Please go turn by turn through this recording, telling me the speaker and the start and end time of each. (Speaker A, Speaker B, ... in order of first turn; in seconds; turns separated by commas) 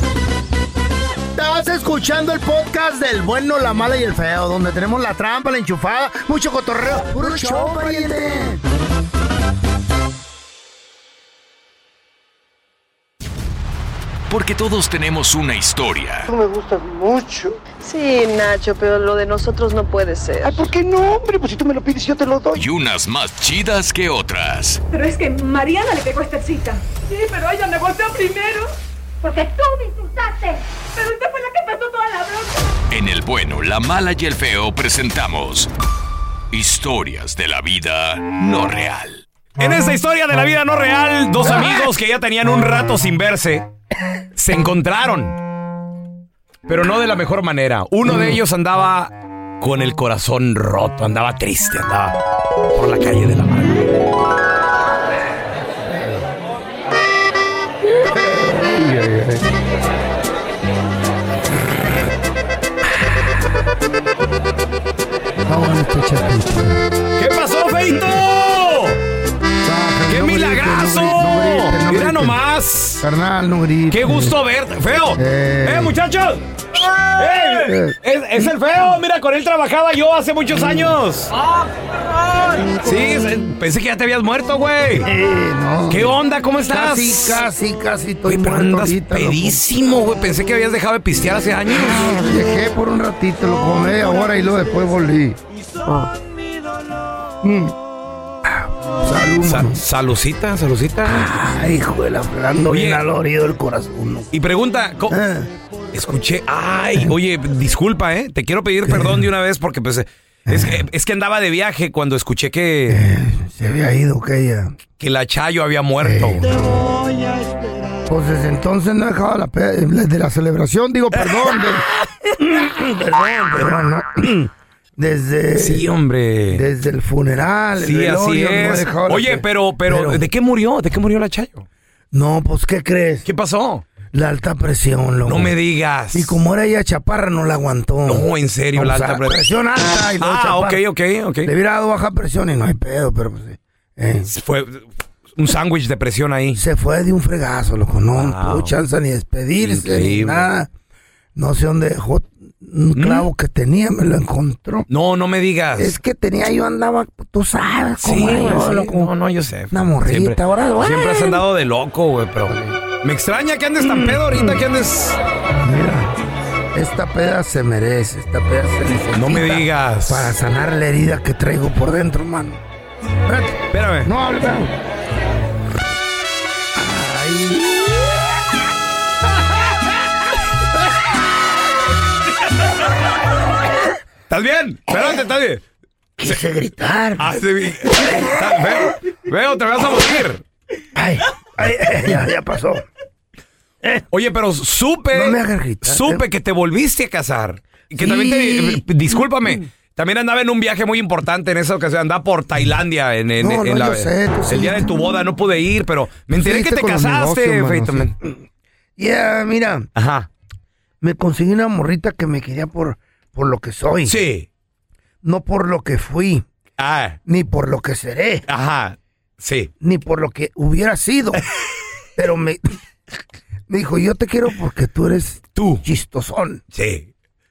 Speaker A: 1.4-8.6, Speaker B: 14.3-16.3, Speaker C: 16.3-22.6, Speaker B: 22.5-24.8, Speaker D: 24.9-32.8, Speaker B: 32.9-35.7, Speaker B: 36.5-39.2, Speaker E: 39.6-43.7, Speaker E: 44.4-45.4, Speaker E: 46.7-52.1, Speaker A: 48.1-48.4, Speaker E: 52.7-53.9, Speaker A: 58.0-59.5, Speaker A: 65.5-66.9, Speaker E: 67.2-69.0, Speaker A: 69.6-72.4, Speaker E: 70.1-73.0, Speaker A: 73.0-74.3, Speaker E: 73.9-76.5, Speaker A: 75.2-76.0, Speaker E: 77.1-81.4, Speaker A: 77.4-78.5, Speaker E: 82.7-85.1, Speaker A: 85.0-86.2, Speaker E: 85.9-87.5, Speaker A: 86.7-89.6, Speaker E: 88.2-92.1, Speaker A: 91.7-95.4, Speaker A: 97.4-97.7, Speaker A: 98.4-99.8, Speaker E: 99.4-101.3, Speaker A: 101.0-104.3, Speaker E: 102.7-103.0, Speaker E: 104.3-105.2, Speaker A: 105.1-105.5, Speaker E: 105.9-113.0, Speaker A: 108.8-109.3, Speaker A: 110.5-110.8, Speaker A: 112.9-114.7, Speaker E: 115.0-116.5, Speaker A: 116.0-116.9, Speaker A: 118.1-125.9, Speaker E: 125.6-126.7, Speaker A: 126.5-130.2, Speaker E: 127.8-131.7, Speaker A: 132.1-133.3, Speaker E: 133.2-133.8, Speaker A: 134.1-135.5, Speaker E: 135.2-136.4, Speaker A: 136.1-140.8, Speaker E: 138.1-139.4, Speaker E: 140.2-141.5, Speaker A: 141.4-144.3, Speaker E: 144.3-146.6, Speaker A: 146.6-150.7, Speaker E: 148.2-148.8, Speaker E: 149.6-150.5, Speaker A: 151.3-154.9, Speaker E: 152.9-153.3, Speaker E: 154.9-156.0, Speaker A: 155.8-159.1, Speaker E: 158.0-165.2, Speaker A: 159.7-161.4, Speaker A: 162.5-162.8, Speaker A: 163.8-164.6, Speaker A: 165.6-166.1, Speaker A: 166.7-172.6, Speaker E: 169.1-170.3, Speaker A: 173.2-174.7, Speaker E: 173.7-174.1, Speaker A: 176.8-178.2, Speaker E: 184.3-185.6, Speaker A: 186.2-187.3, Speaker E: 187.2-190.4, Speaker A: 187.9-188.3, Speaker A: 190.9-192.9, Speaker E: 194.1-208.1, Speaker A: 195.1-196.2, Speaker A: 198.0-199.6, Speaker A: 203.4-204.9, Speaker A: 206.3-208.4, Speaker A: 209.0-209.9, Speaker E: 209.9-210.3, Speaker A: 211.0-214.2, Speaker E: 214.1-214.5, Speaker A: 215.2-216.5, Speaker E: 216.8-217.2, Speaker A: 217.3-218.4, Speaker E: 218.5-219.7, Speaker A: 219.8-221.4, Speaker A: 222.2-222.6, Speaker A: 223.7-226.6, Speaker E: 225.6-225.8, Speaker E: 226.7-227.1